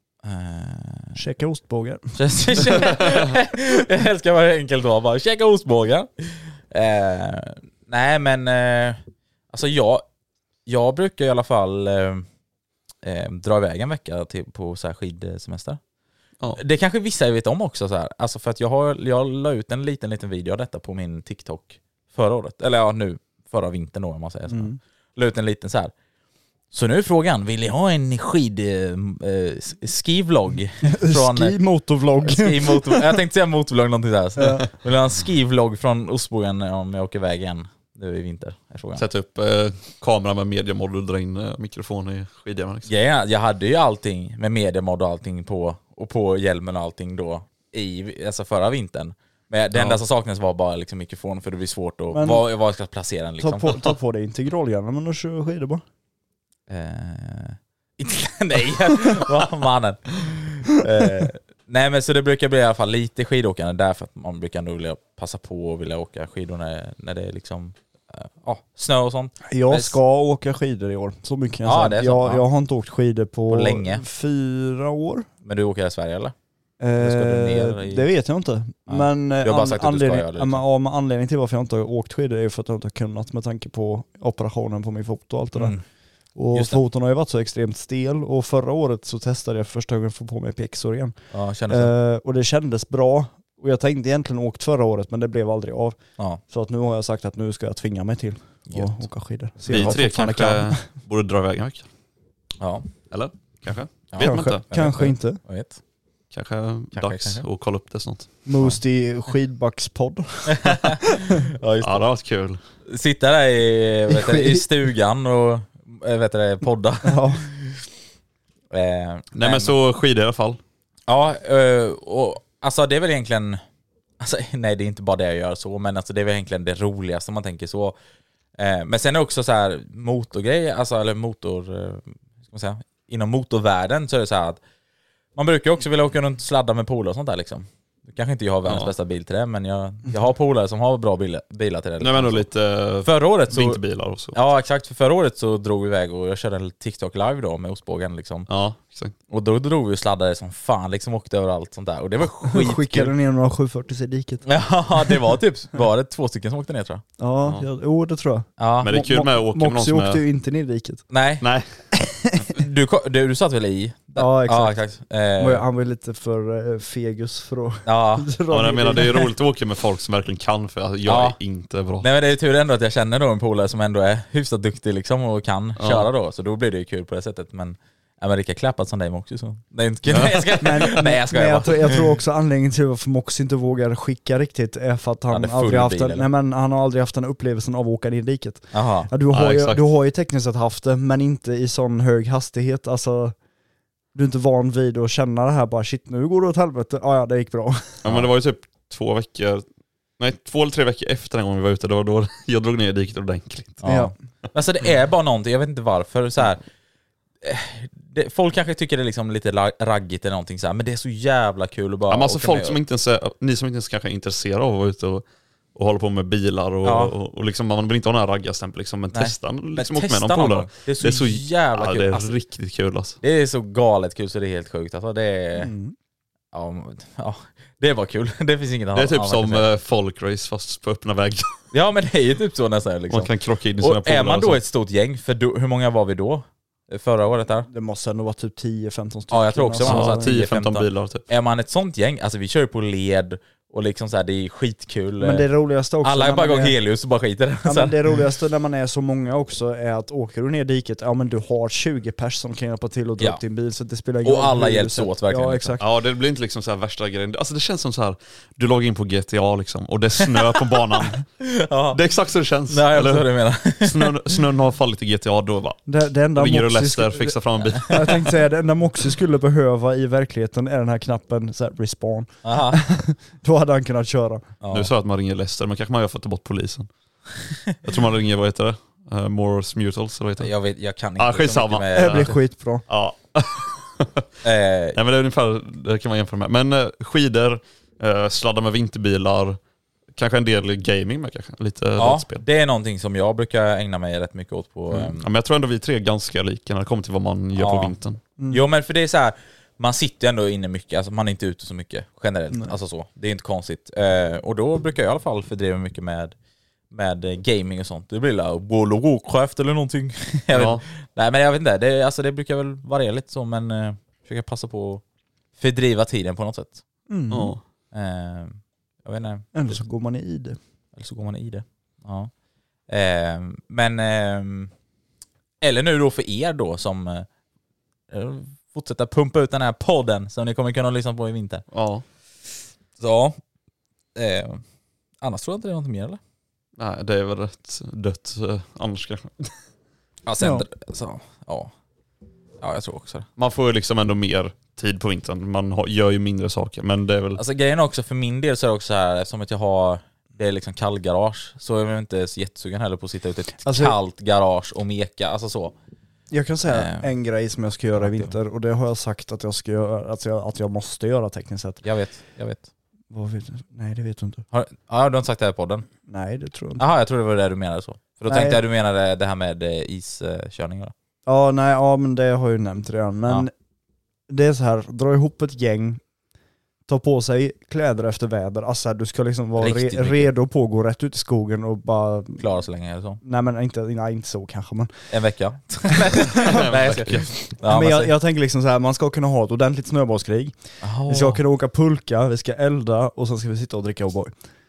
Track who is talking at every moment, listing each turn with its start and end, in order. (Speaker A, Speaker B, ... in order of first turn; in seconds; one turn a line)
Speaker A: 0.2-1.2
Speaker B: 1.1-2.1
Speaker A: 2.1-10.0
Speaker A: 10.7-12.2
Speaker A: 13.0-15.8
Speaker A: 16.5-25.9
Speaker B: 24.5-24.8
Speaker A: 26.7-31.6
Speaker B: 30.9-33.2
Speaker A: 32.2-39.1
Speaker B: 34.4-34.7
Speaker C: 39.0-42.9
Speaker A: 42.9-53.8
Speaker C: 49.7-50.0
Speaker B: 52.1-52.4
Speaker B: 53.4-55.8
Speaker A: 56.7-70.0
Speaker B: 69.5-75.3
Speaker A: 71.6-72.4
Speaker A: 73.5-74.0
Speaker A: 75.4-76.3
Speaker B: 76.8-85.8
Speaker A: 77.0-78.1
Speaker A: 78.9-80.6
Speaker A: 85.5-85.8
Speaker B: 86.3-91.1
Speaker A: 86.5-86.8
Speaker A: 91.3-91.9
Speaker B: 91.7-100.8
Speaker A: 98.7-99.1
Speaker A: 99.7-100.0
Speaker C: 99.7-101.9
Speaker A: 102.6-102.8
Speaker C: 103.1-104.6
Speaker A: 104.1-105.8
Speaker B: 104.2-105.4
Speaker C: 106.3-108.3
Speaker A: 106.9-107.4
Speaker B: 108.5-111.3
Speaker A: 111.6-112.0
Speaker C: 111.8-112.6
Speaker A: 112.9-117.8
Speaker B: 114.1-114.6
Speaker B: 117.0-117.4
Speaker A: 118.7-119.7
Speaker C: 119.3-120.6
Speaker A: 121.1-123.6
Speaker A: 124.2-128.0
Speaker A: 128.6-134.6
Speaker A: 135.3-142.4
Speaker C: 138.6-138.9
Speaker C: 142.0-144.4
Speaker A: 143.0-148.5
Speaker C: 148.5-149.1
Speaker A: 149.3-153.1
Speaker B: 152.5-154.4
Speaker A: 154.4-157.0
Speaker B: 157.2-161.0
Speaker A: 158.6-158.9
Speaker C: 158.8-160.2
Speaker A: 161.1-161.5
Speaker C: 161.4-161.8
Speaker B: 162.0-162.4
Speaker A: 162.5-165.6
Speaker B: 164.2-164.8
Speaker B: 165.4-169.3
Speaker A: 167.8-168.3
Speaker C: 168.5-172.1
Speaker A: 171.0-171.4
Speaker A: 172.0-181.9
Speaker C: 175.8-176.1
Speaker C: 180.1-180.9
Speaker B: 180.6-193.3
Speaker A: 185.3-186.3
Speaker A: 188.7-189.1
Speaker C: 189.3-189.8
Speaker B: 194.1-198.0
Speaker C: 198.0-199.6
Speaker C: 200.2-203.8
Speaker A: 203.8-206.6
Speaker B: 203.8-204.1
Speaker A: 207.4-212.8
Speaker C: 212.1-223.2
Speaker A: 216.8-217.1
Speaker A: 219.1-222.3
Speaker A: 223.2-225.7
Speaker B: 225.6-225.9
Speaker A: 226.5-229.7
Speaker C: 228.9-231.6
Speaker A: 231.7-237.7
Speaker C: 233.1-234.6
Speaker B: 237.7-240.3
Speaker A: 239.3-245.5
Speaker C: 239.8-241.2
Speaker B: 245.2-246.7
Speaker A: 246.0-248.0
Speaker B: 247.6-255.9
Speaker A: 254.2-255.8
Speaker C: 255.8-261.2
Speaker A: 261.4-262.0
Speaker C: 261.9-263.3
Speaker A: 262.7-264.2
Speaker C: 263.8-265.8
Speaker B: 265.9-274.5
Speaker C: 266.3-268.3
Speaker A: 272.4-272.8
Speaker A: 274.6-274.9
Speaker C: 274.7-276.9
Speaker C: 277.8-280.5
Speaker A: 280.4-282.4
Speaker C: 281.2-282.3
Speaker B: 281.9-282.8
Speaker C: 282.9-284.2
Speaker A: 284.4-285.0
Speaker C: 284.9-289.6
Speaker C: 290.1-292.4
Speaker A: 292.0-295.2
Speaker C: 294.9-298.2
Speaker A: 297.6-297.9
Speaker B: 298.4-298.6
Speaker A: 298.5-306.3
Speaker A: 306.9-315.0
Speaker C: 310.5-310.8
Speaker A: 315.6-316.8
Speaker B: 317.1-317.5
Speaker C: 317.3-317.6
Speaker A: 317.9-319.8
Speaker B: 319.5-320.6
Speaker A: 320.9-322.3
Speaker A: 322.9-324.7
Speaker A: 325.6-327.3
Speaker A: 328.1-331.6
Speaker C: 331.7-332.0
Speaker A: 333.0-333.4
Speaker A: 334.1-334.6
Speaker A: 335.2-336.2
Speaker C: 336.8-339.5
Speaker A: 340.2-341.7
Speaker B: 340.4-340.6
Speaker A: 342.6-343.3
Speaker C: 343.4-347.4
Speaker A: 347.4-355.7
Speaker B: 353.6-353.9
Speaker B: 356.3-361.8
Speaker A: 356.7-357.1
Speaker A: 358.0-358.3
Speaker A: 361.8-362.7
Speaker B: 363.1-364.4
Speaker A: 364.5-365.9
Speaker B: 366.1-366.8
Speaker A: 366.8-370.9
Speaker B: 368.2-368.6
Speaker B: 371.2-373.5
Speaker B: 374.3-376.0
Speaker B: 376.9-382.4
Speaker A: 379.6-380.3
Speaker A: 382.4-383.2
Speaker B: 383.2-384.9
Speaker A: 385.1-388.1
Speaker C: 386.4-387.3
Speaker B: 387.6-394.3
Speaker A: 390.8-391.4